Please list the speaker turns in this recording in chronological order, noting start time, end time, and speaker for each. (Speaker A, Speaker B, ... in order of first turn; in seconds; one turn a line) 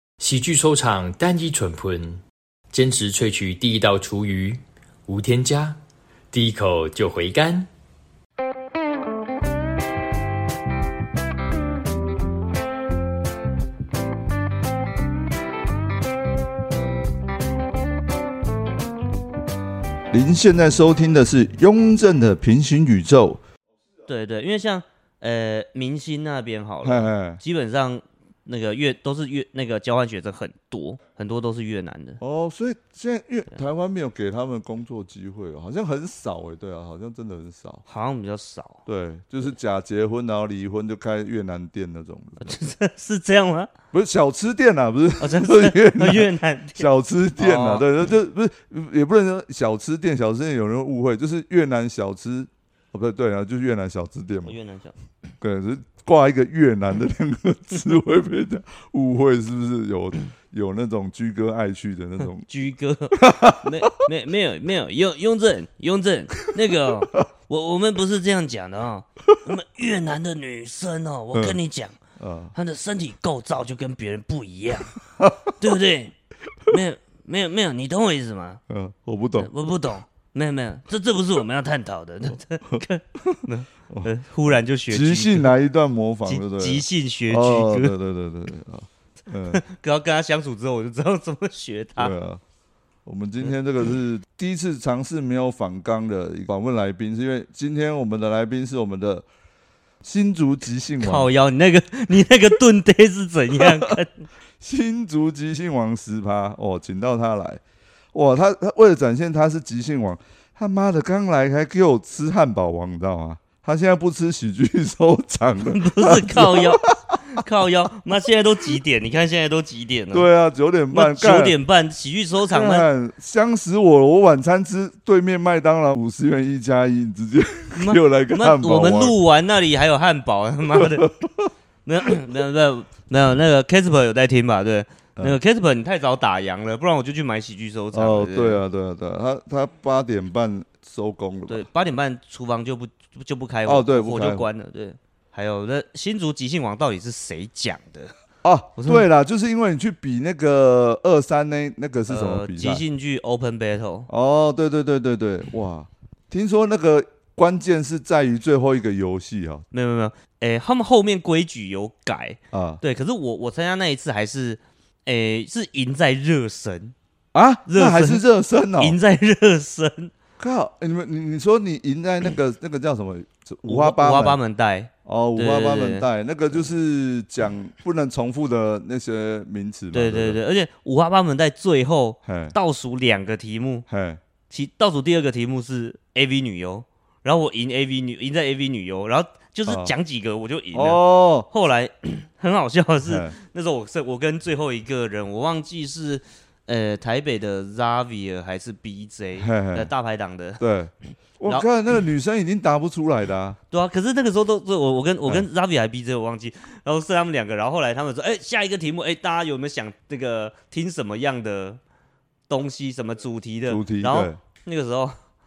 Speaker A: 0.2-5.8
Speaker A: 6.3-7.7
Speaker B: 20.1-23.4
Speaker C: 24.1-32.2
Speaker B: 26.8-27.4
Speaker B: 32.2-37.8
Speaker C: 37.9-38.8
Speaker B: 38.9-42.5
Speaker C: 42.4-43.7
Speaker B: 43.9-54.5
Speaker C: 45.2-46.9
Speaker C: 47.4-47.9
Speaker C: 54.5-54.9
Speaker B: 55.4-62.5
Speaker C: 62.4-72.0
Speaker B: 63.2-63.8
Speaker B: 72.2-72.5
Speaker C: 72.5-75.0
Speaker B: 75.2-75.5
Speaker C: 75.6-76.2
Speaker C: 76.7-78.6
Speaker B: 78.7-79.5
Speaker C: 79.4-85.5
Speaker B: 84.9-89.6
Speaker C: 86.2-88.0
Speaker C: 89.5-92.2
Speaker B: 92.0-92.4
Speaker B: 93.0-99.3
Speaker B: 100.0-101.3
Speaker C: 101.0-104.2
Speaker B: 103.6-103.9
Speaker B: 104.6-107.6
Speaker B: 108.1-117.4
Speaker C: 115.7-120.3
Speaker B: 120.1-121.6
Speaker C: 120.9-122.9
Speaker B: 122.5-129.2
Speaker C: 127.8-131.1
Speaker B: 130.7-131.5
Speaker C: 131.8-138.6
Speaker B: 137.9-141.7
Speaker C: 141.5-148.1
Speaker B: 143.7-144.5
Speaker B: 148.4-152.8
Speaker C: 148.8-149.1
Speaker C: 152.1-154.1
Speaker B: 154.1-159.7
Speaker C: 159.7-166.9
Speaker B: 162.5-162.8
Speaker B: 167.3-169.0
Speaker C: 167.7-168.2
Speaker C: 168.8-170.1
Speaker B: 170.4-174.4
Speaker C: 173.7-176.1
Speaker B: 175.1-180.4
Speaker C: 179.9-183.9
Speaker B: 182.2-182.6
Speaker B: 183.9-184.2
Speaker C: 184.5-200.6
Speaker B: 189.7-189.9
Speaker B: 190.7-191.5
Speaker B: 193.1-193.3
Speaker B: 199.4-199.9
Speaker B: 200.6-203.6
Speaker C: 203.7-211.8
Speaker C: 212.5-215.2
Speaker B: 213.7-214.4